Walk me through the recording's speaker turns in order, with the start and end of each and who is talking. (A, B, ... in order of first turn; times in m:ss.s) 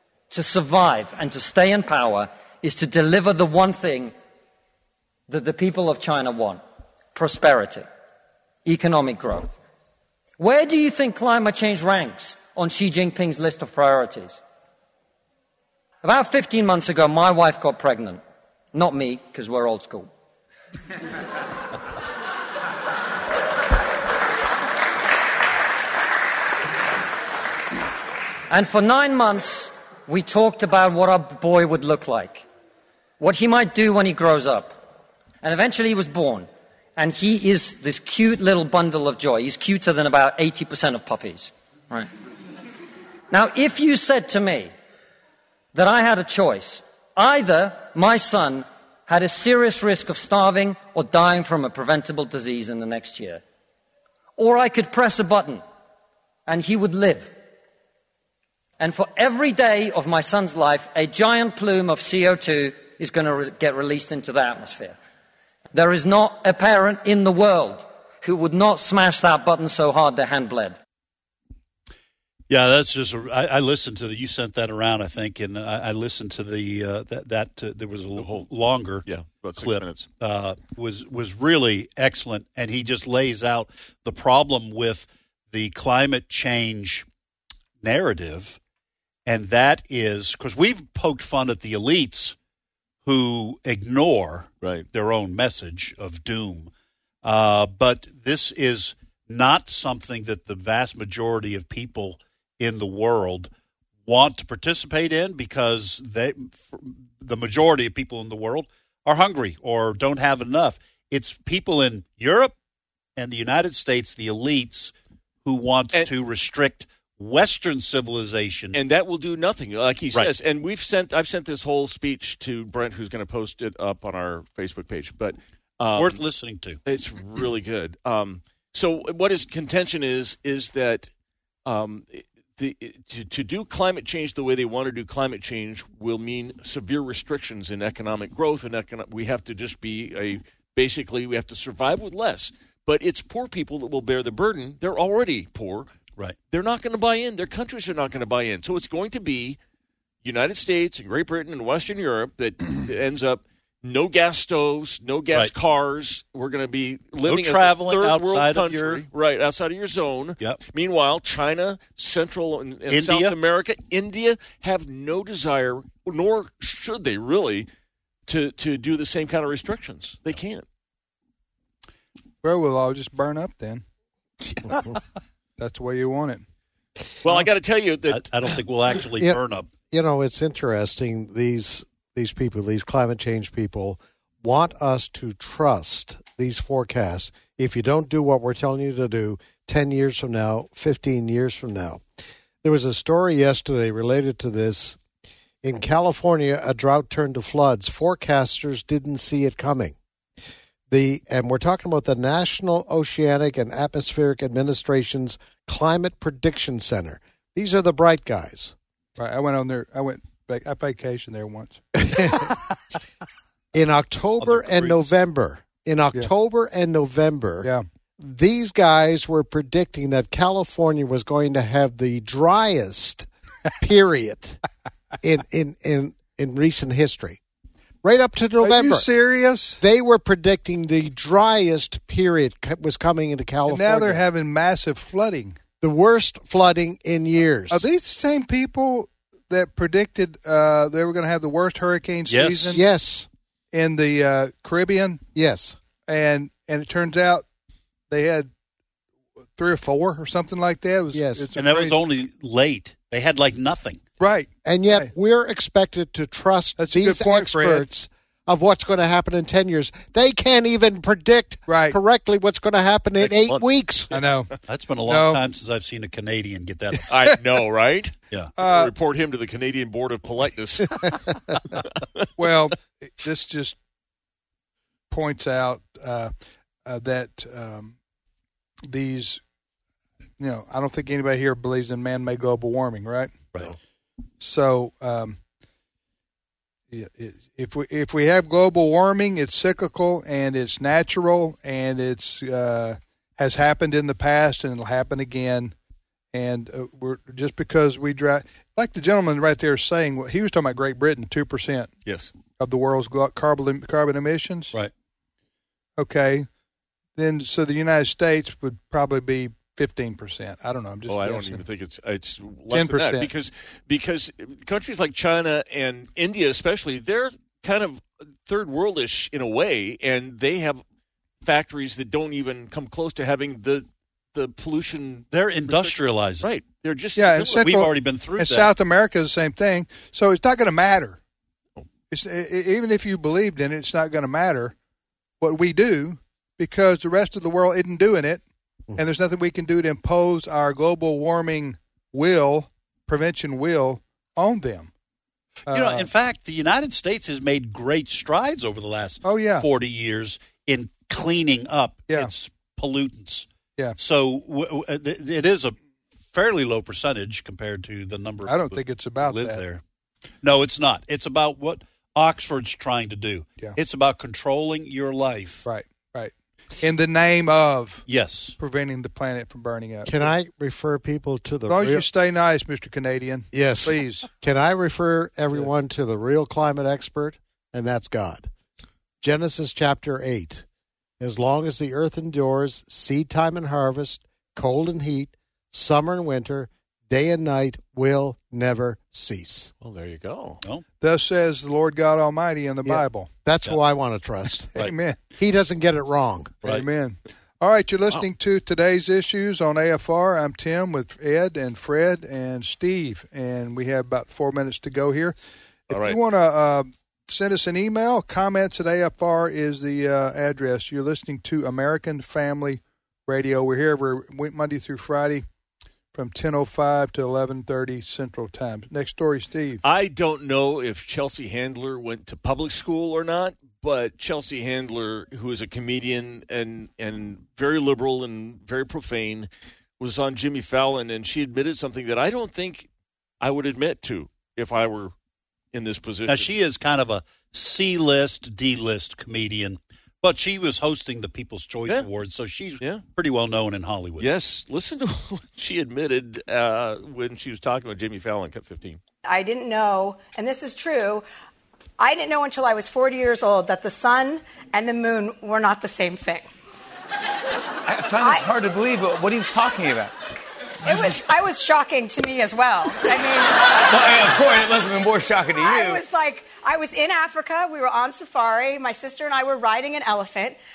0:00.3-0:04.2 A
0:05.3-0:06.6 A
0:07.1-0:07.9 A
0:08.7-0:09.6 A
0:10.4-0:14.4 A
0:16.0-0:18.2 A
0:18.7-0:20.1 A
0:28.5-0:32.5 A
0:33.2-0:34.8 A
0:35.4-0:42.1 A
0:43.3-0:44.7 A
0:45.7-0:53.4 A
0:54.4-0:55.6 A
0:56.5-0:57.4 A
0:58.8-1:05.0 A
1:05.7-1:10.8 A
1:12.5-1:19.0 B
1:18.2-1:18.5 C
1:19.0-1:20.1 C
1:19.6-1:27.1 B
1:27.8-1:28.6 B
1:29.3-1:32.4 B
1:33.0-1:36.7 B
1:37.2-1:43.5 B
1:44.0-1:52.6 B
1:53.2-1:54.9 B
1:55.4-1:58.8 B
1:58.7-2:06.2 C
2:05.9-2:06.8 B
2:06.9-2:11.1 C
2:11.7-2:25.9 C
2:26.5-2:29.6 C
2:30.2-2:47.7 C
2:37.2-2:39.0 B
2:42.9-2:43.4 B
2:48.3-2:50.6 C
2:52.4-2:53.8 D
2:55.6-2:56.4 D
2:57.2-2:58.6 C
2:58.1-2:59.7 B
2:59.9-3:12.0 E
3:12.6-3:15.0 E
3:15.6-3:20.0 E
3:20.9-3:28.7 E
3:29.2-3:32.5 D
3:32.1-3:32.5 E
3:33.7-3:43.3 E
3:34.4-3:35.1 B
3:43.8-3:44.6 E
3:45.2-3:47.4 E
3:48.0-3:49.1 E
3:48.6-3:49.8 D
3:49.8-3:54.2 E
3:53.7-3:55.6 D
3:55.8-3:57.9 E
3:57.7-4:02.8 D
4:02.3-4:02.8 B
4:02.7-4:03.3 E
4:03.7-4:05.2 D
4:05.4-4:05.8 E
4:06.1-4:07.4 D
4:08.1-4:08.5 D
4:09.6-4:12.0 D
4:11.1-4:11.5 E
4:11.6-4:14.0 B
4:14.2-4:15.1 D
4:14.6-4:24.1 E
4:16.8-4:17.9 D
4:21.7-4:22.0 D
4:23.2-4:23.7 C
4:24.1-4:24.5 D
4:24.7-4:27.1 B
4:25.1-4:25.4 D
4:27.1-4:31.8 C
4:28.6-4:28.9 D
4:32.4-4:33.8 D
4:35.1-4:36.3 D
4:36.9-4:37.9 D
4:38.9-4:39.4 D
4:40.4-4:43.4 D
4:44.4-4:45.4 D
4:46.9-4:55.8 D
4:56.3-5:01.9 D
5:02.1-5:02.3 C
5:02.6-5:04.7 D
5:06.0-5:06.5 D
5:07.2-5:11.6 D
5:11.1-5:20.8 C
5:12.7-5:13.3 D
5:21.4-5:27.7 C
5:25.3-5:26.5 B
5:27.2-5:31.2 D
5:27.6-5:28.7 B
5:32.1-5:34.8 D
5:35.4-5:38.4 D
5:39.0-5:44.9 D
5:45.7-5:46.1 D
5:45.7-5:55.8 B
5:49.2-5:49.7 D
5:56.3-5:59.8 B
5:58.5-5:59.6 D
6:00.4-6:05.6 B
6:05.6-6:08.1 D
6:08.1-6:08.6 B
6:08.6-6:10.3 D
6:10.1-6:12.1 E
6:11.7-6:14.3 D
6:13.5-6:18.5 E
6:19.2-6:20.6 E
6:21.2-6:29.7 E
6:29.8-6:30.6 C
6:31.0-6:33.3 D
6:32.8-6:34.8 E
6:34.8-6:35.2 D
6:35.4-6:36.6 E
6:36.6-6:45.4 D
6:45.9-6:55.4 D
6:45.9-6:46.2 C
6:56.1-6:59.8 D
6:59.8-7:09.5 C
7:10.0-7:12.9 C
7:13.4-7:15.1 C
7:15.7-7:16.5 C
7:16.3-7:24.3 B
7:24.2-7:29.0 C
7:29.2-7:31.3 F
7:32.0-7:36.5 F
7:37.9-7:40.1 G
7:38.1-7:38.6 F
7:40.8-7:44.1 F
7:43.9-7:46.0 G
7:45.5-7:50.6 F